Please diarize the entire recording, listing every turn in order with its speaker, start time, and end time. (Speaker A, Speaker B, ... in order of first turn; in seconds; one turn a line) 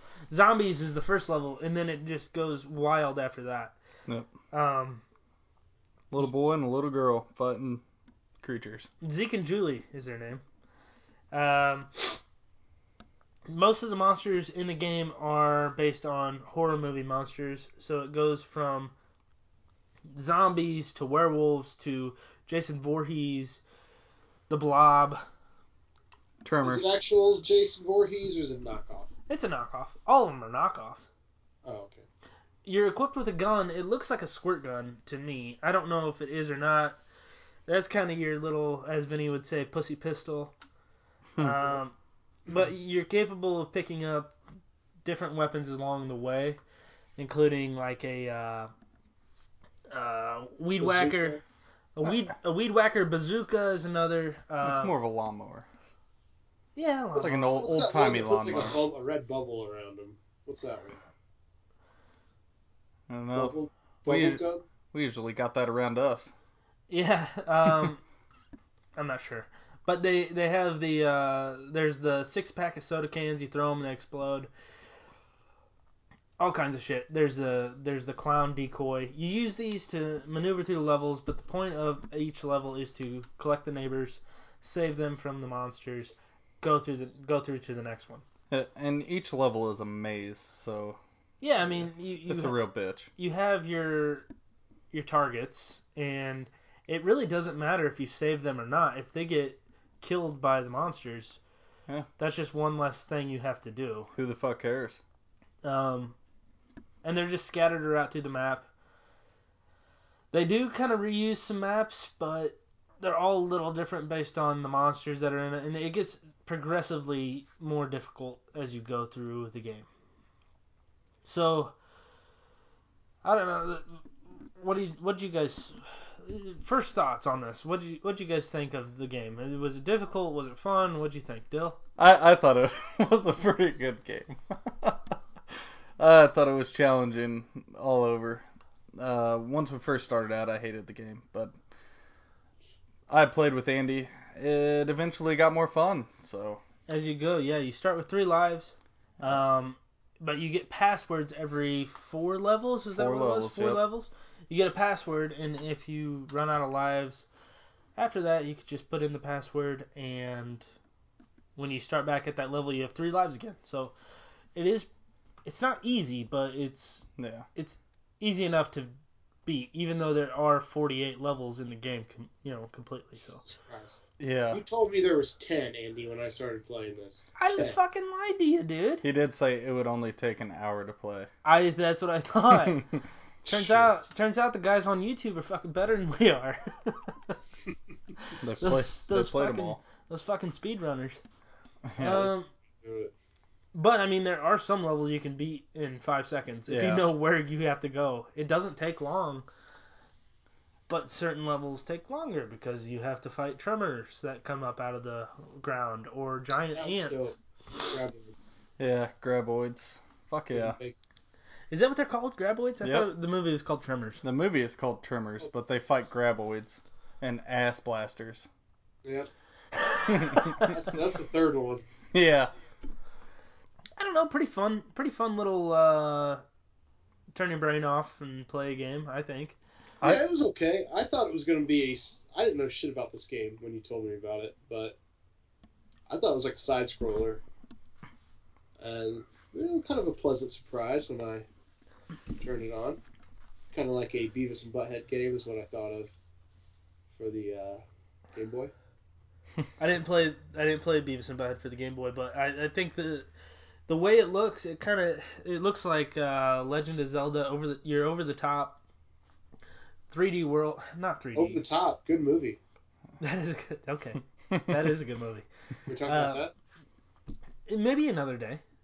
Speaker A: 0.3-3.8
Speaker A: 4.5-5.0
Speaker B: 6.1-7.8
Speaker B: 8.4-8.9
Speaker A: 9.0-10.4
Speaker A: 11.3-12.2
Speaker A: 13.5-18.9
Speaker A: 20.1-23.6
Speaker A: 24.5-25.2
Speaker B: 26.4-26.9
Speaker C: 26.6-29.1
Speaker A: 29.3-31.1
Speaker C: 31.6-32.0
Speaker A: 32.6-37.0
Speaker A: 37.7-40.5
Speaker A: 41.4-41.9
Speaker A: 42.5-44.4
Speaker A: 45.0-46.6
Speaker A: 47.2-48.7
Speaker A: 49.9-51.4
Speaker C: 50.8-51.4
Speaker A: 52.0-54.9
Speaker B: 54.6-55.6
Speaker A: 56.8-57.5
Speaker C: 57.1-61.0
Speaker B: 57.2-58.8
Speaker B: 63.1-63.5
Speaker C: 63.3-64.6
Speaker B: 64.0-66.3
Speaker A: 66.9-68.0
Speaker A: 69.0-74.5
Speaker A: 76.4-88.2
Speaker B: 88.5-91.0
Speaker A: 91.4-92.6
Speaker B: 91.8-93.1
Speaker A: 93.1-94.3
Speaker A: 94.9-101.4
Speaker A: 102.2-104.1
Speaker B: 104.1-105.0
Speaker A: 105.6-106.2
Speaker A: 107.0-108.7
Speaker A: 110.3-119.9
Speaker A: 121.2-121.7
Speaker A: 123.2-124.0
Speaker A: 124.6-131.8
Speaker B: 132.0-135.2
Speaker B: 136.0-138.4
Speaker B: 138.9-141.5
Speaker B: 143.1-146.6
Speaker A: 146.9-157.2
Speaker B: 152.9-153.8
Speaker A: 157.9-160.6
Speaker A: 161.6-163.9
Speaker A: 164.5-164.9
Speaker A: 165.4-168.9
Speaker B: 167.2-167.4
Speaker A: 169.4-173.4
Speaker C: 173.4-174.0
Speaker B: 174.2-174.6
Speaker C: 174.5-177.8
Speaker A: 177.4-179.0
Speaker B: 179.0-181.3
Speaker A: 181.4-182.8
Speaker B: 182.6-183.0
Speaker A: 183.4-187.3
Speaker C: 183.5-183.9
Speaker B: 188.4-189.8
Speaker A: 188.6-191.2
Speaker B: 191.9-192.3
Speaker A: 192.0-192.5
Speaker C: 192.0-193.1
Speaker A: 193.7-199.4
Speaker B: 196.7-197.1
Speaker A: 200.9-207.3
Speaker C: 206.7-208.4
Speaker B: 208.8-210.8
Speaker C: 210.5-210.9
Speaker A: 211.7-214.2
Speaker B: 212.8-213.1
Speaker B: 214.2-218.5
Speaker B: 220.1-220.7
Speaker C: 220.4-221.8
Speaker B: 222.1-222.5
Speaker A: 224.0-226.4
Speaker A: 227.3-229.6
Speaker C: 230.0-235.0
Speaker C: 236.1-237.4
Speaker C: 238.8-241.4
Speaker C: 242.4-243.0
Speaker C: 243.7-246.1
Speaker C: 247.1-247.8
Speaker C: 248.3-248.7
Speaker A: 249.8-253.3
Speaker A: 253.9-258.8
Speaker A: 260.1-261.6
Speaker C: 261.3-262.6
Speaker A: 263.2-265.4
Speaker C: 265.9-266.5
Speaker A: 266.0-266.5
Speaker A: 267.7-268.6